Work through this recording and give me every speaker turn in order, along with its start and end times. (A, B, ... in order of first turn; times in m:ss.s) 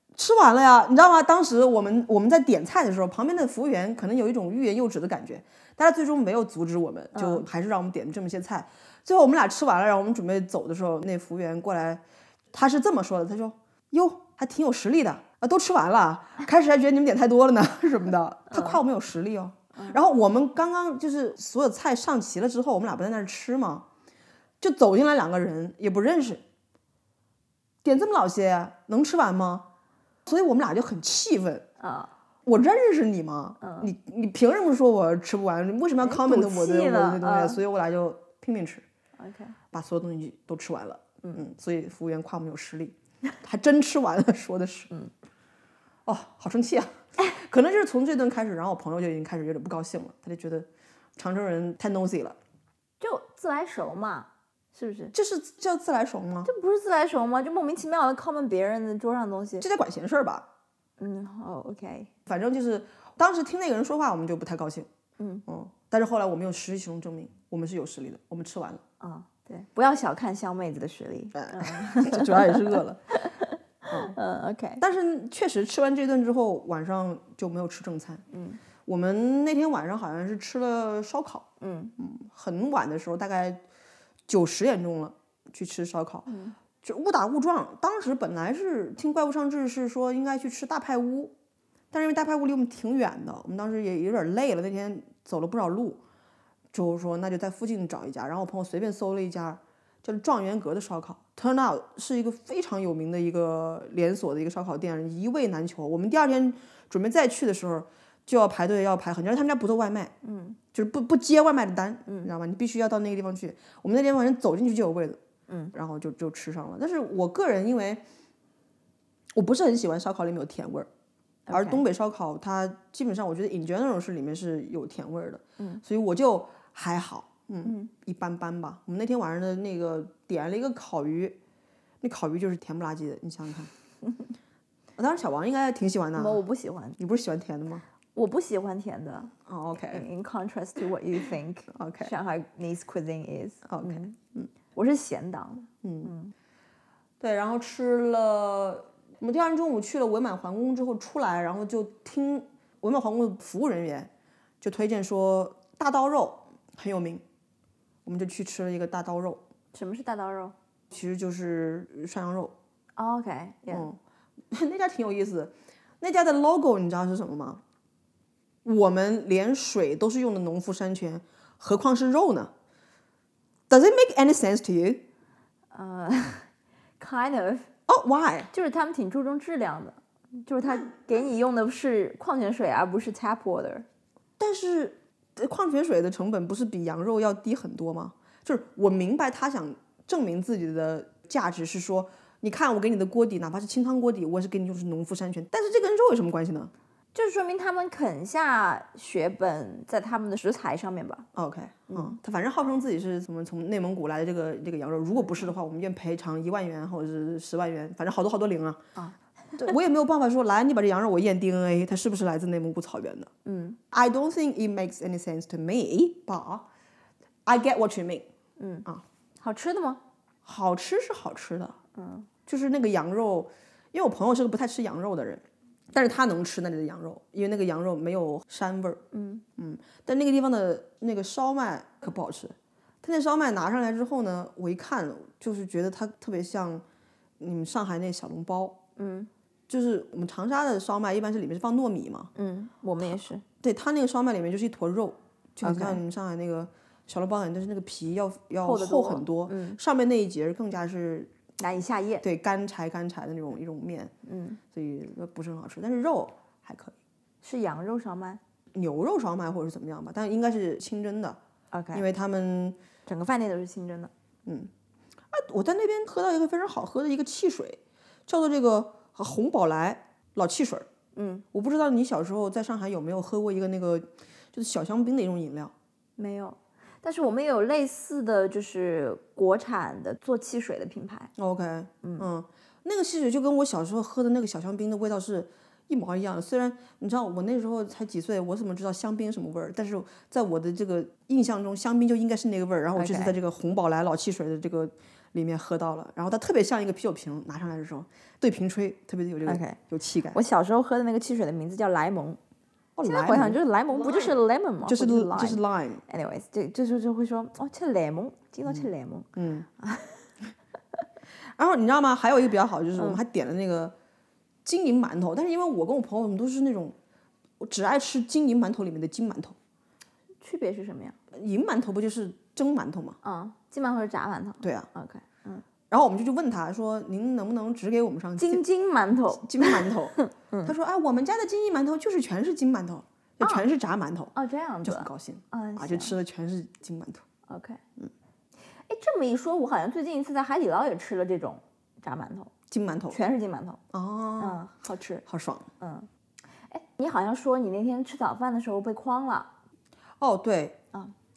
0:00.2-0:23.8 A
0:07.1-0:07.4 B
0:18.5-0:18.8 B
0:24.6-0:26.4 A
0:27.8-0:29.7 A
0:30.2-0:31.6 A
0:31.8-0:32.1 B
0:32.4-0:38.8 A
0:33.6-0:33.9 B
0:36.0-0:37.6 B
0:39.2-0:39.5 B
0:39.7-0:44.9 A
0:46.0-0:52.4 A
0:53.0-0:55.1 B
0:55.1-0:56.5 A
0:56.4-0:59.6 B
0:59.6-1:00.5 A
1:01.0-1:02.1 B
1:02.2-1:04.9 A
1:05.2-1:05.4 B
1:05.5-1:08.8 A
1:09.0-1:14.8 B
1:11.3-1:13.0 A
1:13.9-1:14.1 A
1:14.8-1:18.2 A
1:18.3-1:18.6 B
1:18.8-1:23.6 A
1:21.6-1:21.9 B
1:24.3-1:26.3 A
1:26.3-1:26.6 B
1:26.8-1:31.3 A
1:31.9-1:36.0 A
1:36.7-1:50.1 A
1:50.2-1:50.6 B
1:50.7-1:55.2 A
1:55.5-1:55.7 B
1:55.7-1:58.0 A
1:59.3-2:00.9 A
2:01.5-2:01.8 B
2:01.5-2:11.4 A
2:07.6-2:07.9 B
2:12.0-2:13.7 A
2:15.0-2:16.4 A
2:16.2-2:17.0 B
2:17.0-2:17.8 A
2:18.1-2:24.2 B
2:19.4-2:20.1 A
2:21.7-2:22.1 A
2:23.7-2:24.5 A
2:24.7-2:26.3 B
2:25.8-2:26.1 A
2:27.2-2:37.2 A
2:38.0-2:39.4 A
2:39.7-2:40.5 B
2:40.9-2:42.5 A
2:43.0-2:43.9 B
2:43.7-2:44.0 A
2:44.5-2:47.6 A
2:48.6-2:52.5 A
2:53.7-2:55.0 A
2:55.7-2:56.5 B
2:57.0-2:57.7 B
2:57.9-2:58.5 A
2:58.5-3:03.8 B
3:04.4-3:16.7 A
3:17.1-3:21.3 B
3:21.3-3:28.8 A
3:21.9-3:22.2 B
3:29.0-3:29.7 B
3:29.6-3:33.3 A
3:33.4-3:33.8 B
3:33.9-3:36.7 A
3:37.4-3:38.3 A
3:38.6-3:38.9 B
3:39.4-3:40.0 B
3:40.4-3:41.8 A
3:41.9-3:42.3 B
3:42.5-3:49.0 A
3:49.1-3:49.4 B
3:49.6-3:56.8 A
3:57.4-3:58.8 A
3:59.0-3:59.3 B
3:59.7-4:02.3 A
4:02.4-4:03.4 B
4:03.1-4:11.3 A
4:05.6-4:06.0 B
4:08.6-4:09.8 B
4:11.6-4:12.2 B
4:12.2-4:14.1 A
4:14.2-4:14.6 B
4:14.7-4:17.0 A
4:17.4-4:18.4 B
4:18.7-4:21.4 A
4:21.7-4:22.0 B
4:21.9-4:22.8 A
4:23.0-4:24.1 B
4:24.4-4:24.7 A
4:25.3-4:30.9 A
4:31.1-4:31.4 B
4:31.5-4:35.7 A
4:36.2-4:41.3 B
4:41.4-5:00.4 A
4:53.0-4:53.4 B
4:59.4-4:59.8 B
5:00.3-5:02.4 B
5:03.0-5:06.0 A
5:03.0-5:10.2 B
5:08.7-5:09.7 A
5:11.6-5:13.9 A
5:14.6-5:16.9 A
5:17.6-5:19.6 A
5:20.4-5:21.2 B
5:21.3-5:23.2 A
5:23.2-5:25.6 B
5:24.6-5:24.9 A
5:25.9-5:28.6 A
5:28.4-5:30.7 B
5:29.4-5:34.3 A
5:33.4-5:33.7 B
5:34.3-5:36.1 B
5:34.8-5:37.2 A
5:37.5-5:37.8 B
5:38.9-5:42.5 B
5:42.7-5:43.2 A
5:43.1-5:43.8 B
5:43.9-5:44.6 A
5:44.4-5:45.2 B
5:45.2-5:45.7 A
5:45.8-5:46.1 B
5:46.7-5:49.5 B
5:50.2-5:50.8 A